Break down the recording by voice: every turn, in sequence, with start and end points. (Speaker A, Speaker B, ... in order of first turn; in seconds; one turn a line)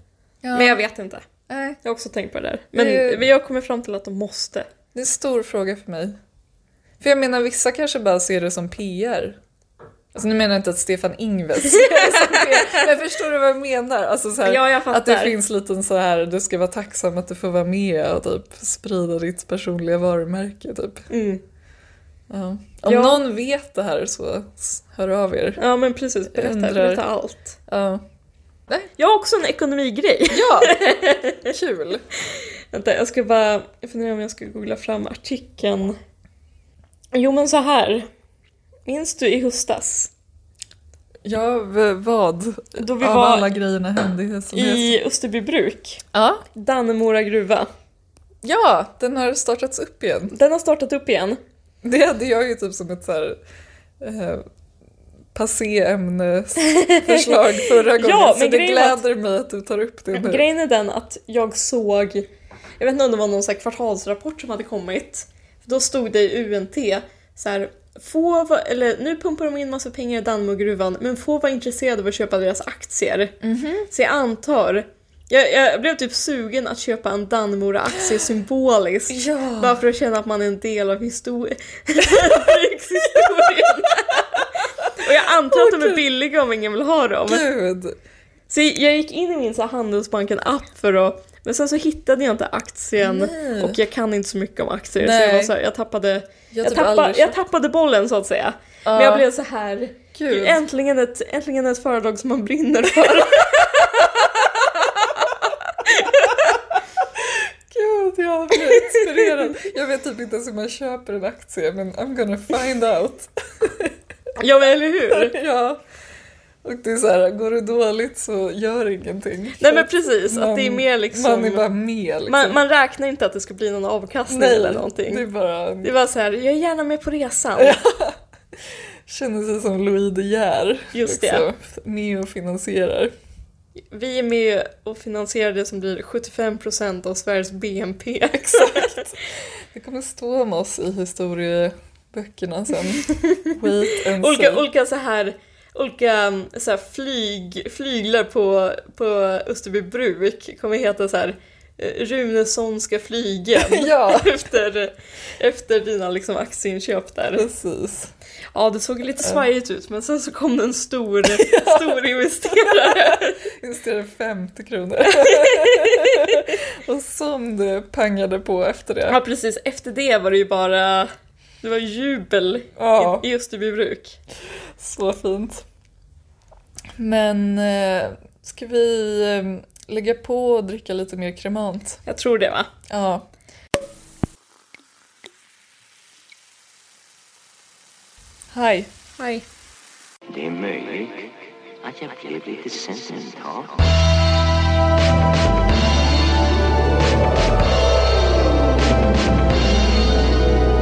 Speaker A: 0.4-0.8
Speaker B: 0.5-1.2
Speaker A: 1.5-1.8
Speaker B: 1.8-4.7
Speaker A: 2.7-3.3
Speaker A: 4.9-6.2
Speaker A: 7.0-9.4
Speaker A: 10.1-21.1
Speaker B: 11.6-12.8
Speaker B: 14.4-15.4
Speaker B: 21.1-21.4
Speaker A: 22.3-25.6
Speaker B: 22.8-23.2
Speaker B: 25.6-27.6
Speaker A: 26.3-27.0
Speaker A: 27.7-28.0
Speaker B: 29.0-31.5
Speaker A: 30.3-30.8
Speaker A: 31.4-32.0
Speaker B: 32.3-36.0
Speaker B: 37.1-38.1
Speaker B: 38.9-40.1
Speaker A: 41.2-45.0
Speaker B: 42.8-43.5
Speaker B: 44.5-47.7
Speaker A: 46.1-46.4
Speaker A: 48.4-50.3
Speaker B: 50.3-51.4
Speaker A: 51.8-53.4
Speaker A: 54.0-54.4
Speaker A: 55.3-60.5
Speaker B: 56.6-59.0
Speaker B: 60.1-62.3
Speaker B: 62.8-73.3
Speaker A: 73.4-73.9
Speaker B: 73.9-87.4
Speaker A: 79.1-79.8
Speaker A: 84.8-86.0
Speaker A: 87.2-88.0
Speaker B: 88.5-106.6
Speaker A: 93.0-93.8
Speaker A: 95.0-95.5
Speaker A: 96.5-97.4
Speaker A: 98.8-99.2
Speaker A: 100.1-100.6
Speaker A: 107.2-113.9
Speaker B: 108.6-109.3
Speaker B: 114.3-115.4
Speaker A: 115.1-115.8
Speaker A: 116.6-122.6
Speaker B: 119.6-121.6
Speaker B: 122.3-125.2
Speaker A: 124.3-125.9
Speaker B: 125.8-127.8
Speaker A: 127.6-128.2
Speaker A: 129.1-133.1
Speaker B: 130.9-131.4
Speaker B: 133.9-139.1
Speaker A: 138.3-144.7
Speaker B: 143.1-157.5
Speaker A: 153.5-154.4
Speaker A: 157.3-158.1
Speaker B: 158.5-163.4
Speaker A: 161.3-169.2
Speaker B: 165.1-166.5
Speaker B: 169.1-171.1
Speaker B: 171.6-174.2
Speaker A: 172.8-173.2
Speaker A: 174.8-175.7
Speaker A: 177.0-182.0
Speaker B: 182.1-182.7
Speaker A: 182.9-183.2
Speaker A: 188.5-188.9
Speaker B: 189.2-189.4
Speaker C: 190.3-193.9